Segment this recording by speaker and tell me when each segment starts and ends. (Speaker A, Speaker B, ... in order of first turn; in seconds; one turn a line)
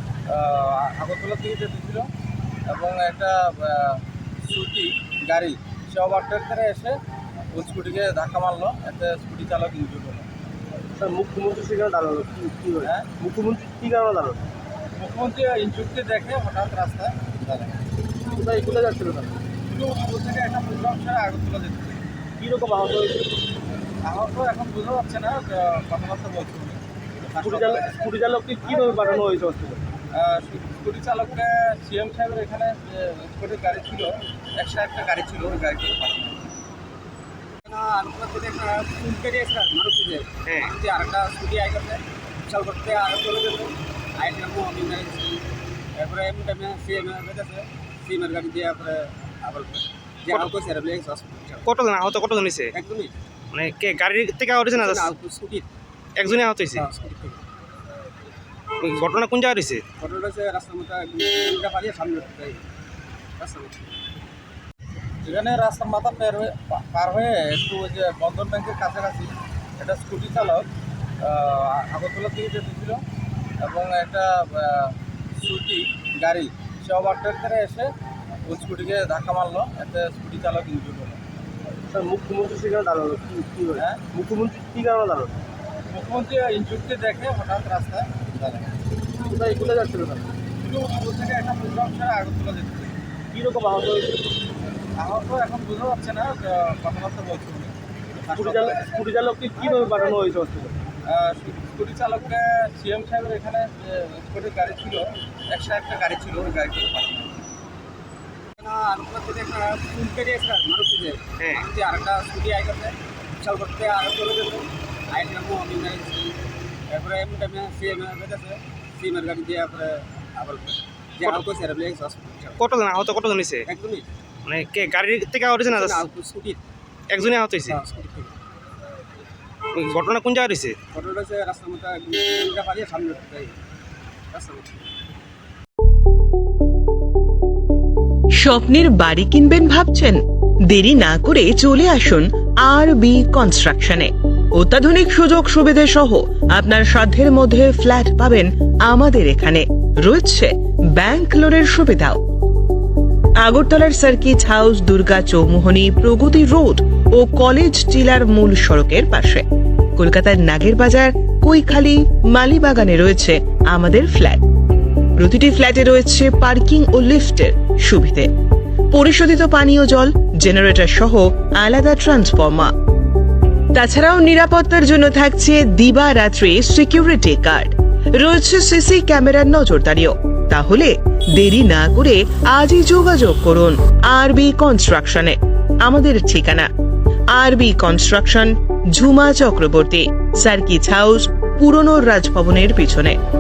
Speaker A: 0.3-2.1
Speaker A: 2.7-7.0
Speaker A: 7.5-10.3
Speaker B: 10.9-14.4
Speaker A: 12.8-13.1
Speaker A: 15.0-17.8
Speaker B: 18.3-19.3
Speaker A: 19.6-22.0
Speaker B: 22.4-23.2
Speaker A: 24.0-28.1
Speaker B: 27.4-29.8
Speaker C: 28.8-29.2
Speaker A: 30.1-36.4
Speaker C: 37.6-45.4
Speaker D: 40.5-40.7
Speaker C: 46.0-51.6
Speaker D: 51.6-52.7
Speaker C: 52.7-53.1
Speaker D: 53.5-55.1
Speaker C: 54.7-55.7
Speaker D: 56.2-56.9
Speaker C: 56.7-57.4
Speaker D: 58.8-59.8
Speaker C: 60.0-62.6
Speaker C: 63.4-63.9
Speaker A: 65.2-70.7
Speaker A: 71.2-73.0
Speaker A: 73.6-77.9
Speaker A: 78.5-81.2
Speaker B: 81.9-85.4
Speaker A: 83.8-84.0
Speaker A: 85.9-88.7
Speaker B: 89.2-90.3
Speaker A: 90.6-93.0
Speaker B: 93.3-94.1
Speaker A: 95.0-99.0
Speaker B: 98.4-100.8
Speaker A: 99.6-100.2
Speaker A: 101.1-107.3
Speaker C: 108.6-116.4
Speaker D: 111.4-111.6
Speaker C: 116.9-122.6
Speaker D: 122.6-123.7
Speaker C: 123.7-124.0
Speaker D: 124.5-126.0
Speaker C: 125.7-126.6
Speaker D: 127.1-127.8
Speaker C: 127.7-128.3
Speaker D: 129.7-130.8
Speaker C: 130.9-133.5
Speaker C: 134.3-134.8
Speaker E: 138.4-152.2
Speaker E: 153.4-159.4
Speaker E: 160.0-164.4
Speaker E: 165.2-168.3
Speaker E: 168.9-172.7
Speaker E: 173.7-186.7
Speaker E: 187.3-193.2